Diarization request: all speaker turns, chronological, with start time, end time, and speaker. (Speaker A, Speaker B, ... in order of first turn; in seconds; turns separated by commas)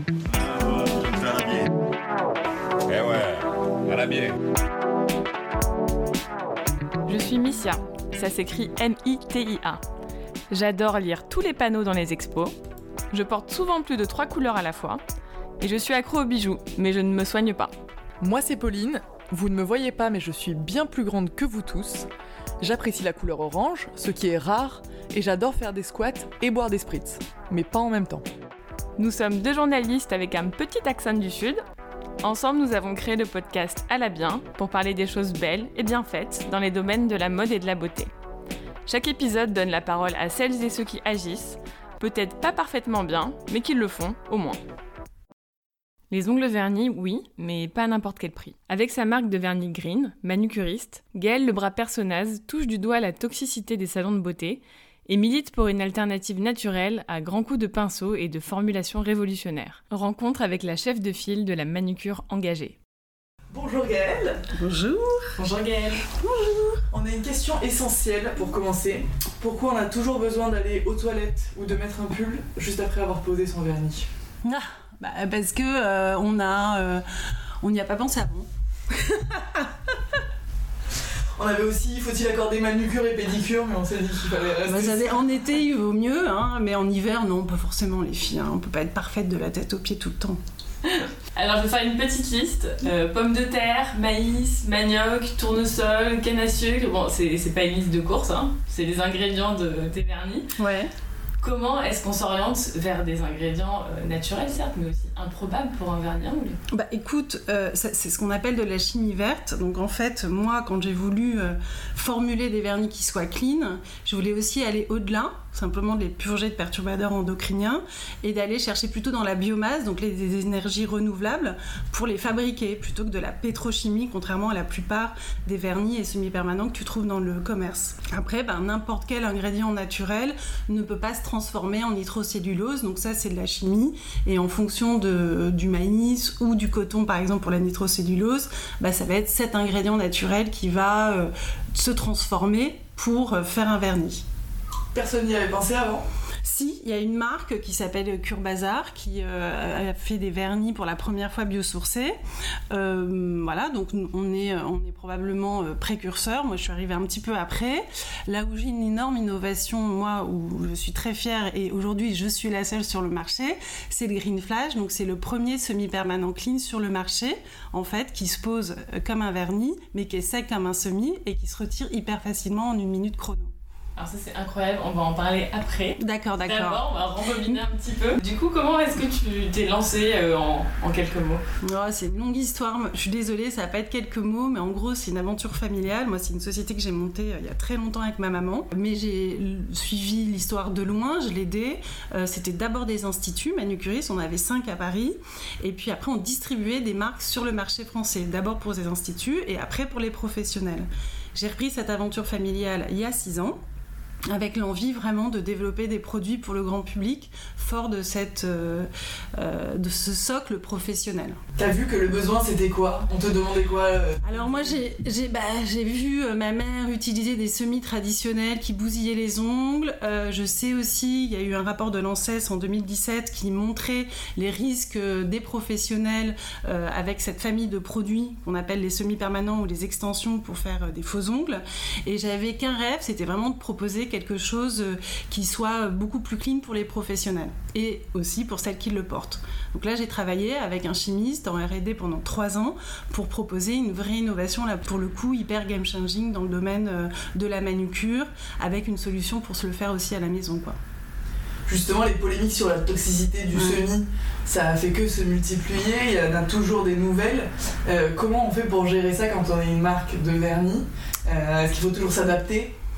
Speaker A: 0.2-1.7, Speaker A: 2.9-4.4, Speaker B: 7.1-9.8, Speaker B: 10.5-12.5, Speaker B: 13.1-15.0, Speaker B: 15.6-17.7, Speaker C: 18.2-22.1, Speaker C: 22.6-28.2, Speaker B: 29.0-31.6, Speaker B: 32.2-38.1, Speaker B: 38.9-44.6, Speaker B: 46.1-62.8, Speaker C: 63.5-64.4, Speaker D: 64.5-65.4, Speaker C: 65.4-65.9, Speaker B: 65.6-65.9, Speaker D: 66.2-66.8, Speaker C: 66.9-74.1, Speaker D: 74.4-77.0, Speaker D: 77.6-80.2, Speaker C: 81.4-85.2, Speaker D: 84.7-90.4, Speaker B: 90.9-100.5, Speaker D: 100.6-100.9, Speaker B: 101.4-106.6, Speaker D: 106.7-144.2, Speaker C: 144.9-146.1, Speaker D: 146.4-152.2, Speaker D: 152.7-173.5, Speaker B: 174.0-181.4, Speaker D: 176.0-176.8, Speaker D: 181.6-203.6, Speaker D: 204.3-211.4, Speaker C: 211.6-214.8, Speaker D: 214.2-250.8, Speaker C: 251.7-262.7, Speaker D: 253.5-253.8